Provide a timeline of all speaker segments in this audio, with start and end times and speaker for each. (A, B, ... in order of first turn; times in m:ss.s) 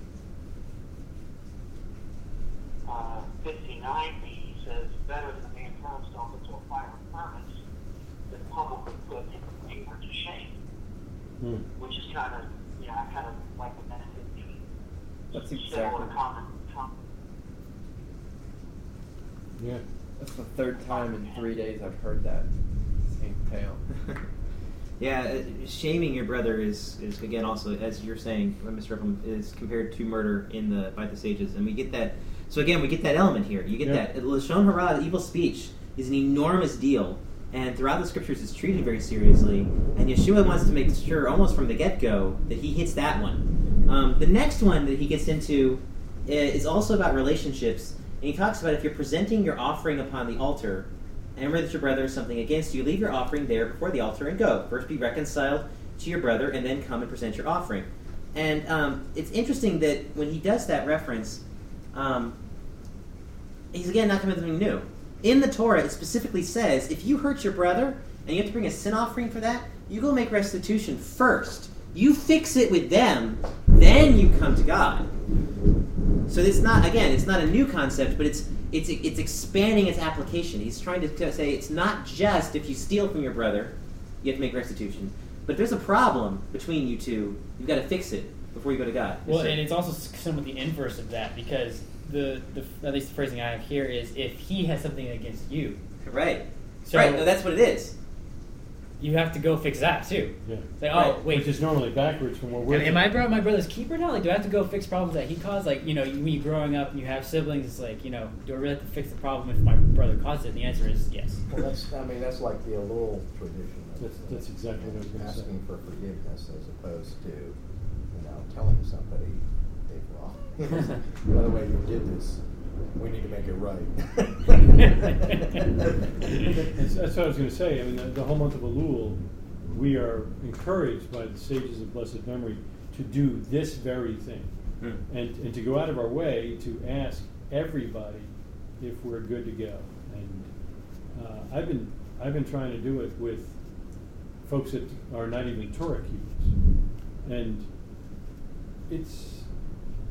0:02.8-0:07.6 A
0:08.3-0:10.5 A
0:11.4-0:11.7 B
0:11.8-0:14.6 A
0:15.3-0:16.1 C
0:15.4-0:16.9 A
0:19.6-0:19.8 B
0:20.2-0:22.5 C
0:20.9-0:21.5 A
0:23.1-0:23.8 C
0:25.0-1:02.3 D
1:03.7-1:15.1 D
1:16.3-1:29.6 D
1:29.2-1:35.8 E
1:36.0-1:37.9 D
1:36.8-1:37.3 E
1:39.0-1:41.6 E
1:40.9-1:41.2 D
1:41.2-1:43.0 B
1:42.7-1:51.5 E
1:42.7-1:43.0 D
1:51.5-1:57.6 F
1:54.0-1:55.5 B
1:58.1-2:02.4 F
2:02.9-2:05.9 F
2:06.4-2:14.5 B
2:15.1-2:20.5 B
2:21.1-2:23.6 B
2:24.4-2:26.5 B
2:27.2-2:27.7 B
2:28.9-2:29.5 B